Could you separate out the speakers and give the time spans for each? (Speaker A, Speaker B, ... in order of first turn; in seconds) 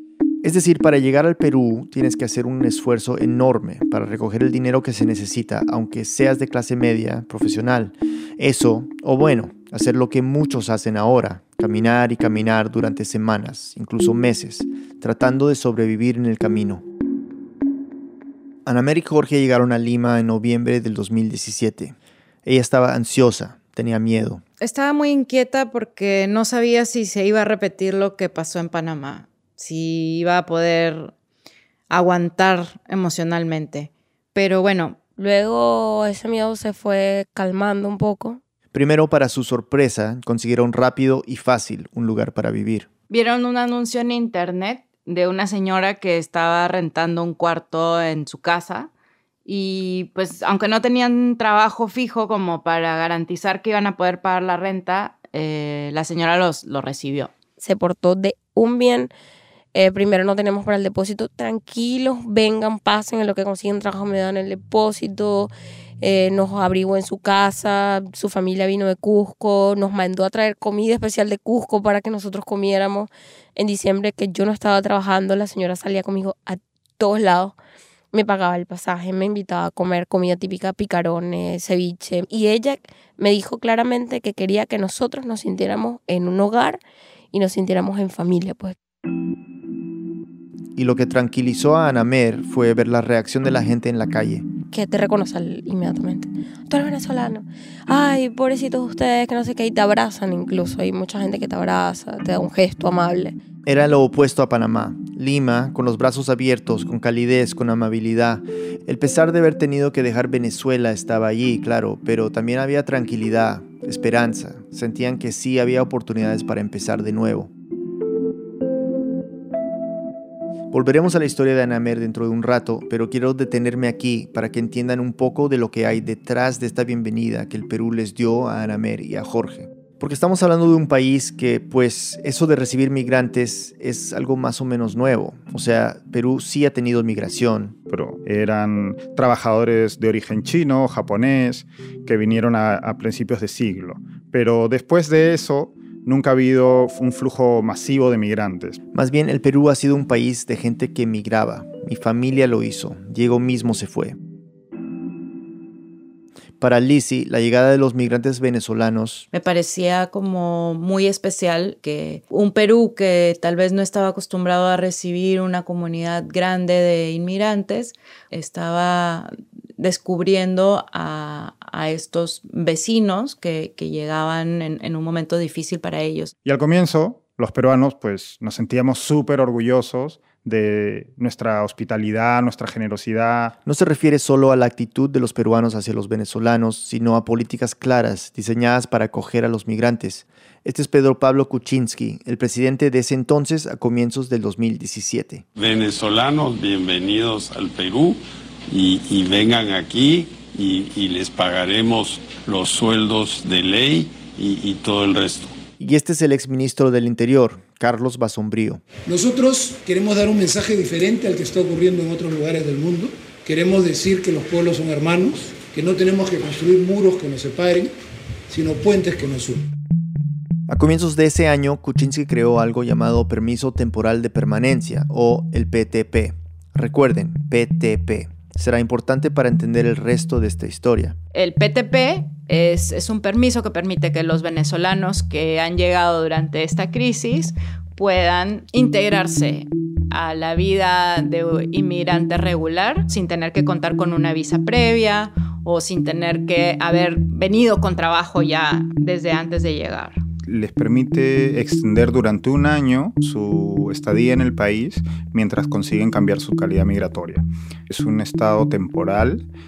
Speaker A: 0.4-16.8, 18.7-24.4, 38.7-42.9, 90.8-94.5, 103.7-117.5, 120.7-137.7, 148.9-154.2, 156.6-159.3, 183.7-195.4, 205.8-208.8, 220.7-231.2
Speaker B: 24.6-31.1, 31.9-35.0, 43.1-48.9, 49.5-57.3, 159.3-176.3, 231.3-250.2
Speaker C: 35.2-38.4, 57.6-59.1, 59.7-77.5, 78.1-86.8, 87.3-88.8, 94.7-103.4
Speaker D: 137.9-148.8, 176.4-183.6, 250.5-259.5
Speaker E: 195.6-205.5
Speaker F: 209.1-217.9, 218.5-219.7